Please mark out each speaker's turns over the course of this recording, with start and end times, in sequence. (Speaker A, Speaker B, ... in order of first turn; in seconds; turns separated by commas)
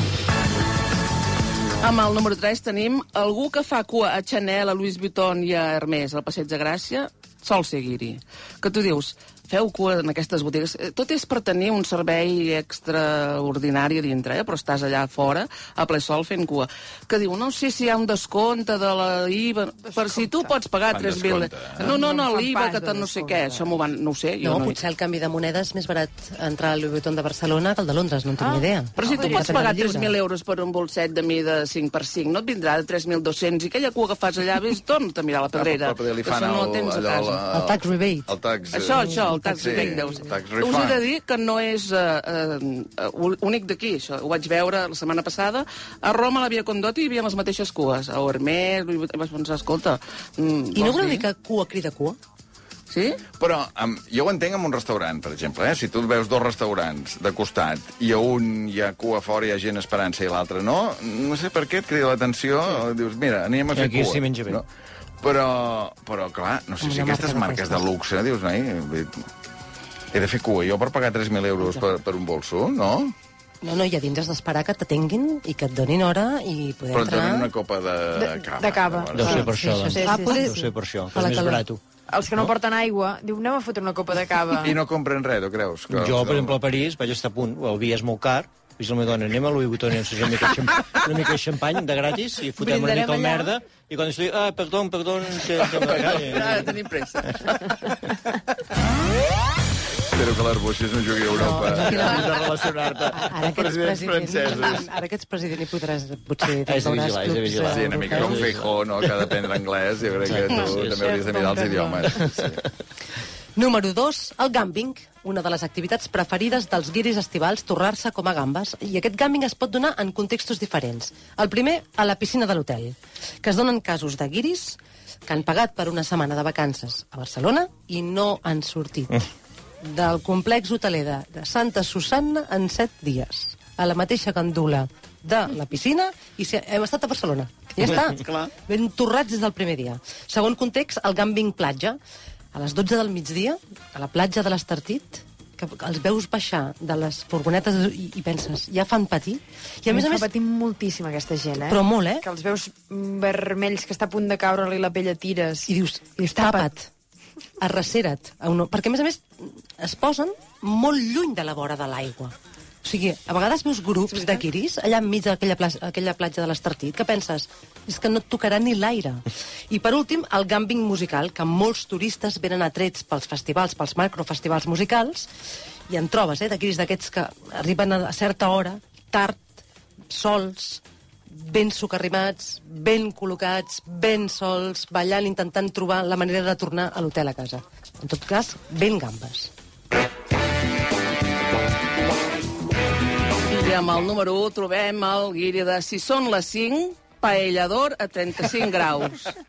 Speaker A: 1.8-24.8, Speaker B: 19.9-20.5, Speaker C: 20.9-21.9, Speaker B: 21.8-23.8, Speaker D: 24.4-30.1, Speaker B: 28.4-29.5, Speaker C: 29.0-29.4, Speaker A: 29.0-37.4, Speaker C: 35.6-41.0, Speaker D: 37.5-38.3, Speaker A: 38.7-51.3, Speaker D: 39.0-39.5, Speaker D: 50.7-52.2, Speaker A: 52.9-53.2, Speaker C: 53.4-64.7, Speaker E: 63.7-64.6, Speaker C: 65.2-69.2, Speaker D: 66.8-67.9, Speaker C: 70.1-73.1, Speaker D: 73.6-77.5, Speaker C: 76.9-79.5, Speaker B: 78.2-80.7, Speaker E: 79.1-81.8, Speaker D: 79.6-81.6, Speaker B: 82.1-84.8, Speaker C: 84.5-86.6, Speaker E: 85.9-96.7, Speaker D: 92.6-93.5, Speaker A: 95.6-97.7, Speaker C: 100.1-104.9, Speaker D: 101.3-102.5, Speaker E: 101.7-102.1, Speaker D: 103.1-108.3, Speaker E: 106.6-109.3, Speaker C: 107.7-112.6, Speaker E: 110.2-111.2, Speaker B: 111.0-112.1, Speaker E: 112.1-112.7, Speaker D: 113.6-129.2, Speaker D: 129.8-142.0, Speaker D: 142.5-150.2, Speaker B: 149.9-156.7, Speaker D: 151.6-152.3, Speaker D: 155.7-156.9, Speaker D: 157.6-175.3, Speaker D: 175.9-179.6, Speaker D: 180.1-189.5, Speaker A: 193.5-199.3